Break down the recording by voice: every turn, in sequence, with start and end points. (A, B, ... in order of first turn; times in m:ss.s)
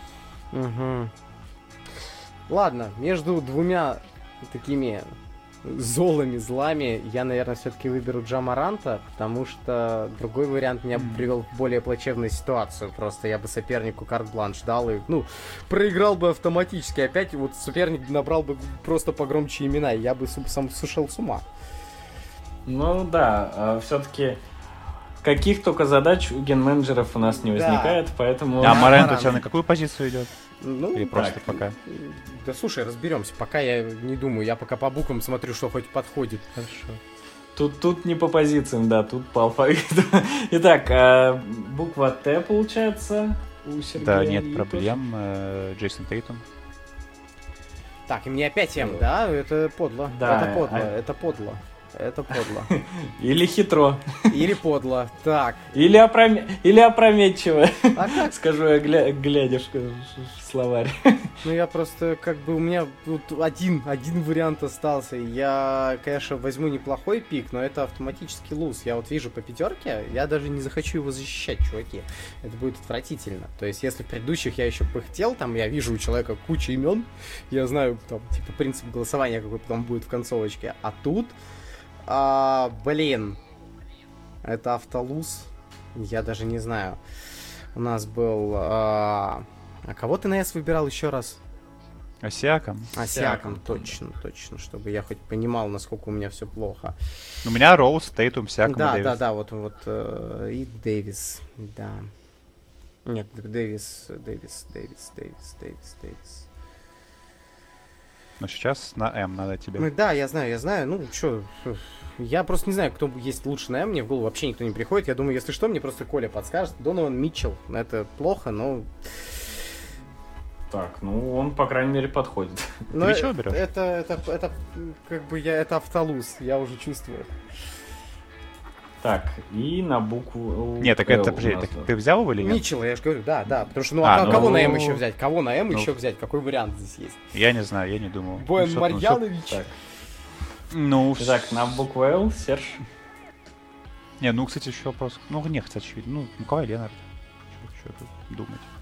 0:00.5-0:01.1 A
0:02.5-0:21.5 A
0:10.9-0:11.3 B
0:22.7-0:24.4 C
0:25.2-0:29.3 C
0:27.4-0:28.0 A
0:28.6-0:30.3 B
0:28.6-0:29.4 A
0:30.6-0:36.6 A
0:30.9-0:31.8 B
0:31.1-0:31.4 C
0:36.6-0:37.0 B
0:37.6-0:45.0 C
0:44.0-0:46.4 B
0:48.1-0:52.7 A
0:48.8-0:49.0 C
0:50.1-0:50.9 C
0:52.5-0:54.5 C
0:54.3-0:55.6 A
0:55.7-1:01.4 C
0:58.0-0:58.4 A
1:01.4-1:21.4 A
1:22.1-1:23.4 A
1:24.4-1:27.0 A
1:27.8-1:31.4 A
1:32.2-1:33.0 B
1:33.0-1:37.0 A
1:33.1-1:34.0 C
1:37.4-1:39.2 B
1:38.7-1:42.1 A
1:43.1-1:46.5 A
1:48.4-1:49.9 B
1:49.8-1:58.9 A
2:00.7-2:02.9 C
2:02.9-2:07.4 A
2:03.0-2:03.6 B
2:09.0-2:11.9 C
2:10.8-2:12.6 B
2:12.4-2:17.2 A
2:14.0-2:15.0 B
2:14.2-2:14.8 C
2:17.3-2:19.2 B
2:18.4-2:19.6 A
2:20.7-2:21.7 B
2:21.2-2:22.8 C
2:24.2-2:27.0 B
2:27.6-2:28.7 B